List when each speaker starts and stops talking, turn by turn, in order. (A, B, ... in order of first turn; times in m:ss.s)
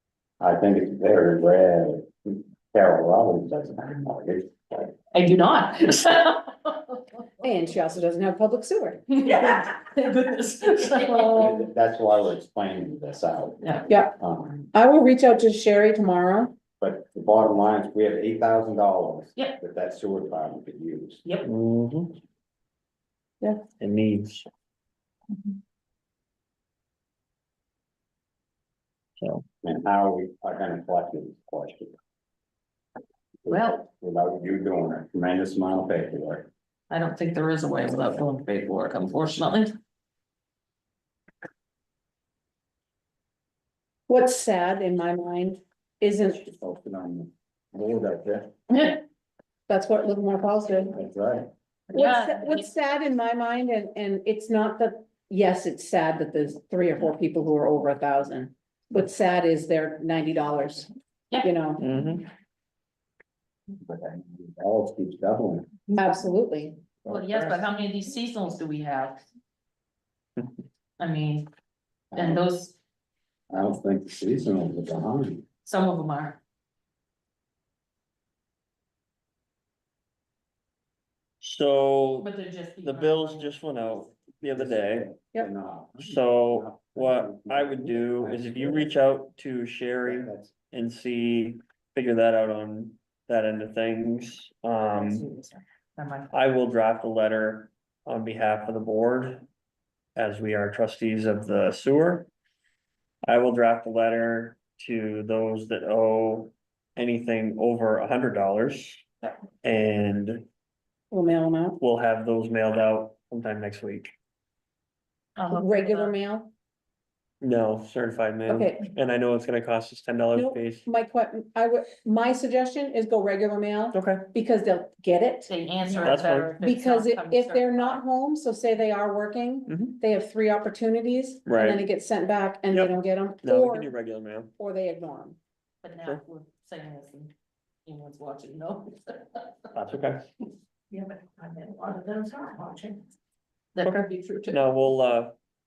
0:00.4-0:04.9 A
0:05.1-0:07.2 B
0:07.4-0:09.5 C
0:09.1-0:11.6 B
0:11.2-0:14.6 A
0:13.9-0:14.1 C
0:14.7-0:16.5 C
0:16.8-0:21.2 A
0:21.4-0:22.2 D
0:23.8-0:24.5 D
0:29.6-0:32.0 A
0:33.4-0:36.5 A
0:33.5-0:33.8 B
0:36.9-0:39.7 B
0:44.1-0:46.4 C
0:46.4-0:48.5 A
0:49.7-0:51.0 C
0:50.9-0:51.5 A
0:51.9-0:52.6 B
0:51.9-1:01.8 C
1:01.8-1:02.2 D
1:03.8-1:05.7 A
1:05.9-1:06.8 C
1:07.0-1:07.6 D
1:07.1-1:09.2 B
1:11.0-1:11.5 B
1:12.1-1:12.4 A
1:12.1-1:12.8 B
1:13.5-1:15.4 A
1:15.6-1:16.4 B
1:21.4-1:22.3 D
1:22.2-1:23.5 B
1:22.8-1:25.1 D
1:24.6-1:28.9 A
1:26.0-1:35.3 D
1:30.0-1:30.5 A
1:34.8-1:36.3 B
1:36.3-1:39.4 D
1:40.2-1:42.3 D
1:43.2-1:49.0 D
1:49.6-1:50.4 D
1:51.1-1:51.8 C
1:51.8-1:54.1 D
1:55.4-1:56.1 B
1:55.5-1:56.5 C
1:57.4-2:00.8 D
1:58.5-1:58.8 C
2:00.3-2:13.9 C
2:03.9-2:04.3 D
2:05.5-2:08.0 B
2:05.9-2:06.6 D
2:09.7-2:10.0 D
2:11.4-2:11.8 D
2:12.7-2:14.5 D
2:14.6-2:15.4 C
2:15.8-2:17.3 B
2:17.8-2:19.7 B
2:19.7-2:20.2 D
2:20.9-2:23.0 B
2:23.7-2:24.6 B
2:23.8-2:25.3 D